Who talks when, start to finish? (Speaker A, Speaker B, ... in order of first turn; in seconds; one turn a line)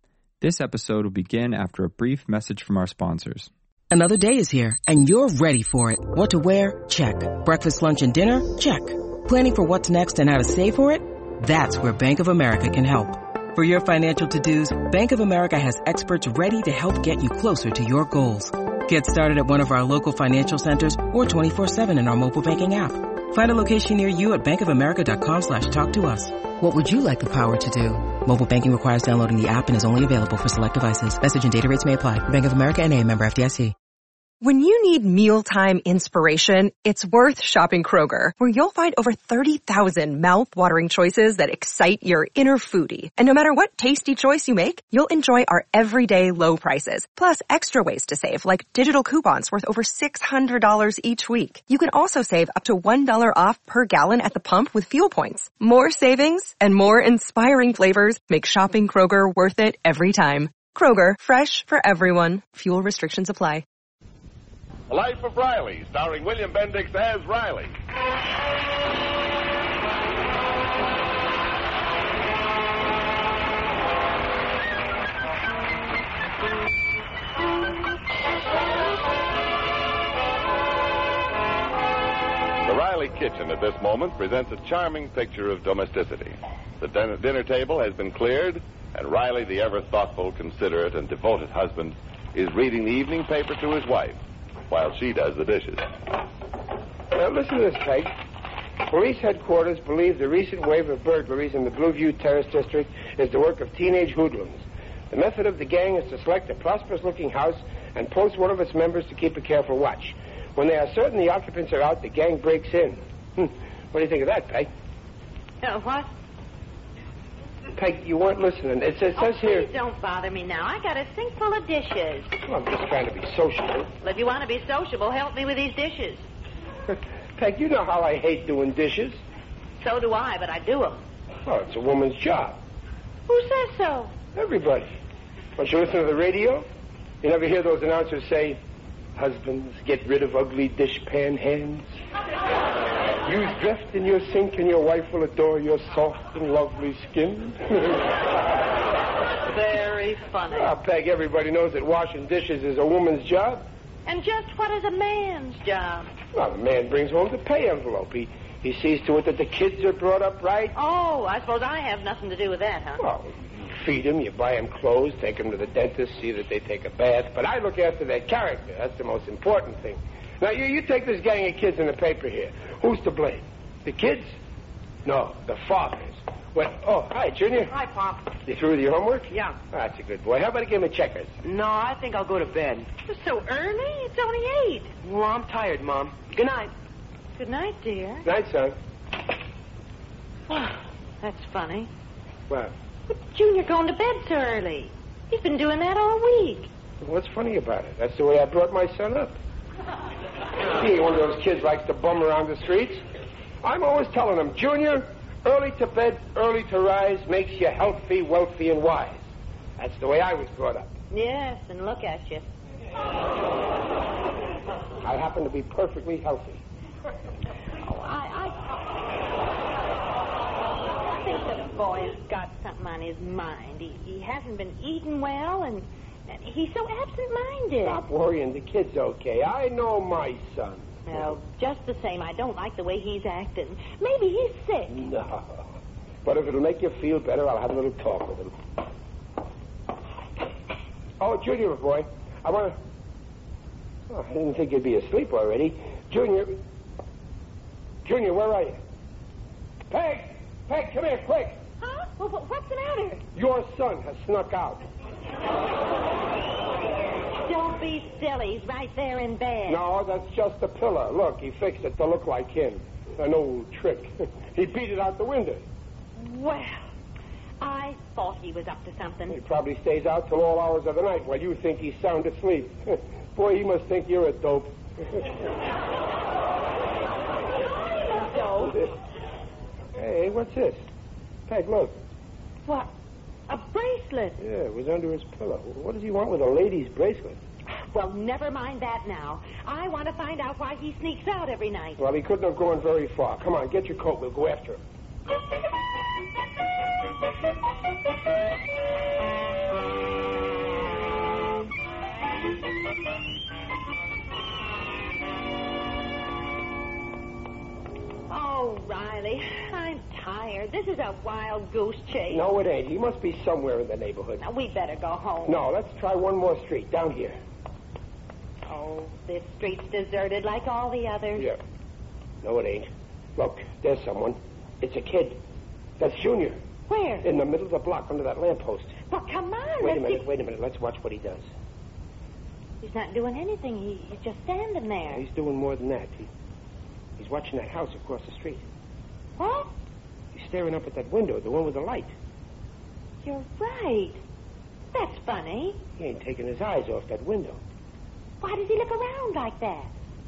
Speaker A: 0.4-3.5
Speaker B: 3.9-33.7
Speaker C: 34.4-63.6
Speaker D: 64.9-67.7
Speaker D: 82.6-95.9
Speaker E: 97.1-98.1
Speaker E: 98.8-114.7
Speaker F: 115.6-116.1
Speaker E: 117.7-119.7
Speaker F: 119.1-122.4
Speaker E: 122.4-123.9
Speaker F: 124.0-126.2
Speaker E: 126.9-129.2
Speaker F: 129.8-131.0
Speaker E: 131.4-132.6
Speaker F: 133.3-134.1
Speaker E: 134.3-134.9
Speaker E: 135.6-136.7
Speaker E: 137.2-138.6
Speaker E: 139.1-141.9
Speaker E: 143.2-148.2
Speaker F: 149.4-150.7
Speaker E: 150.5-153.7
Speaker F: 154.1-156.1
Speaker E: 156.3-160.7
Speaker F: 160.7-163.0
Speaker E: 163.0-174.3
Speaker E: 175.0-177.7
Speaker G: 177.6-178.3
Speaker E: 178.4-181.4
Speaker G: 179.3-179.6
Speaker G: 181.4-182.9
Speaker F: 183.1-184.9
Speaker G: 185.0-186.7
Speaker F: 187.3-188.2
Speaker E: 188.2-188.8
Speaker F: 190.5-191.9
Speaker E: 192.5-192.7
Speaker F: 193.1-196.7
Speaker E: 197.0-199.4
Speaker E: 200.6-203.0
Speaker E: 203.6-210.9
Speaker F: 211.1-212.5
Speaker E: 215.0-216.6
Speaker F: 217.8-218.9
Speaker F: 220.9-228.0
Speaker E: 227.8-231.4
Speaker F: 231.1-235.1
Speaker E: 234.9-235.7
Speaker E: 236.2-238.6
Speaker E: 241.2-242.8
Speaker E: 244.1-246.6
Speaker E: 248.0-248.8
Speaker E: 249.9-251.6
Speaker F: 251.8-253.2
Speaker E: 253.3-254.8
Speaker F: 257.4-259.8
Speaker E: 259.7-265.6
Speaker F: 266.1-266.9
Speaker F: 267.6-269.4
Speaker E: 269.3-275.3
Speaker F: 277.9-278.9
Speaker E: 278.6-278.9
Speaker E: 279.9-280.9
Speaker E: 281.5-282.0
Speaker F: 282.6-282.9
Speaker F: 283.5-284.4
Speaker E: 284.4-287.4
Speaker F: 287.7-292.0
Speaker E: 292.0-294.8
Speaker F: 308.3-312.4
Speaker E: 312.3-314.4
Speaker F: 314.4-315.6
Speaker E: 315.4-317.4
Speaker F: 318.7-321.5
Speaker E: 322.4-325.4
Speaker E: 326.0-326.6
Speaker F: 326.9-327.3
Speaker E: 327.2-329.0
Speaker F: 329.1-330.2
Speaker E: 329.8-331.5
Speaker F: 332.8-335.2
Speaker E: 335.1-336.3
Speaker E: 337.2-338.6
Speaker F: 339.4-339.7
Speaker E: 340.3-342.1
Speaker F: 343.2-344.2
Speaker F: 344.9-345.8
Speaker E: 346.0-347.6
Speaker F: 348.4-349.9